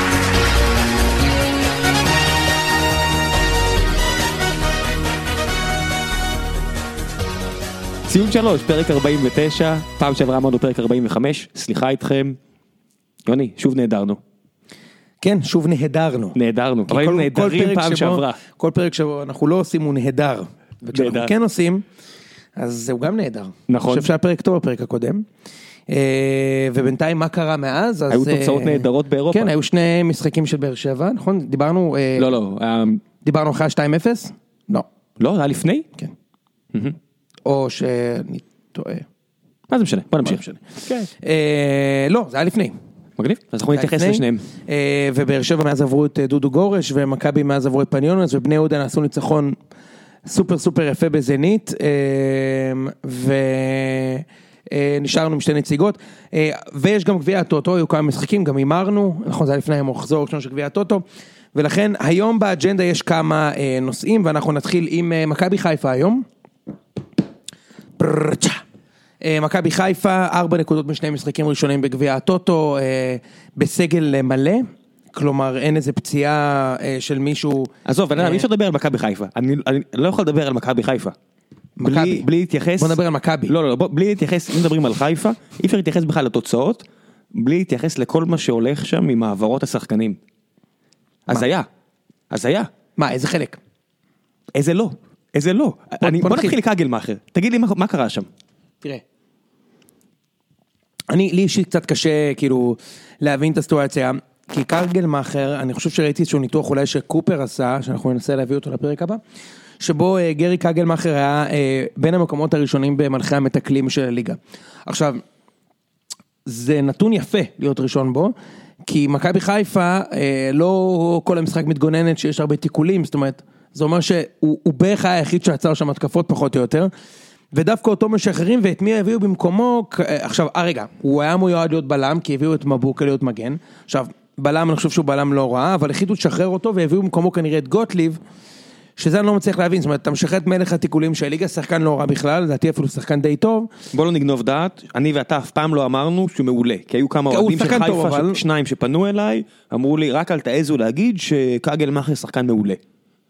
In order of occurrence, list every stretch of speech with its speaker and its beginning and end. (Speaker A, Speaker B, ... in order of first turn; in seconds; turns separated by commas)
Speaker A: 8.1-12.4, Speaker A: 13.2-14.2, Speaker B: 15.2-16.4, Speaker A: 16.3-18.4, Speaker B: 16.9-21.8, Speaker A: 20.9-21.3, Speaker B: 22.6-25.2, Speaker A: 23.7-24.1, Speaker B: 25.9-32.3, Speaker A: 28.1-29.5, Speaker A: 32.1-33.0, Speaker B: 33.2-34.9, Speaker A: 35.2-35.9, Speaker B: 37.4-39.0, Speaker A: 39.7-41.1, Speaker B: 40.2-42.7, Speaker A: 43.2-44.4, Speaker B: 43.7-49.5, Speaker B: 50.2-66.2, Speaker B: 68.0-68.6, Speaker B: 69.2-78.5, Speaker A: 77.8-81.1, Speaker B: 81.8-83.5, Speaker A: 81.8-90.2, Speaker A: 91.3-91.7, Speaker A: 92.3-92.7, Speaker B: 93.0-93.6, Speaker A: 94.5-98.3, Speaker B: 96.0-96.5, Speaker B: 101.1-109.2, Speaker B: 109.8-115.2, Speaker B: 116.5-126.9, Speaker B: 127.5-138.2, Speaker B: 139.0-143.7, Speaker A: 143.9-152.8, Speaker B: 147.3-148.4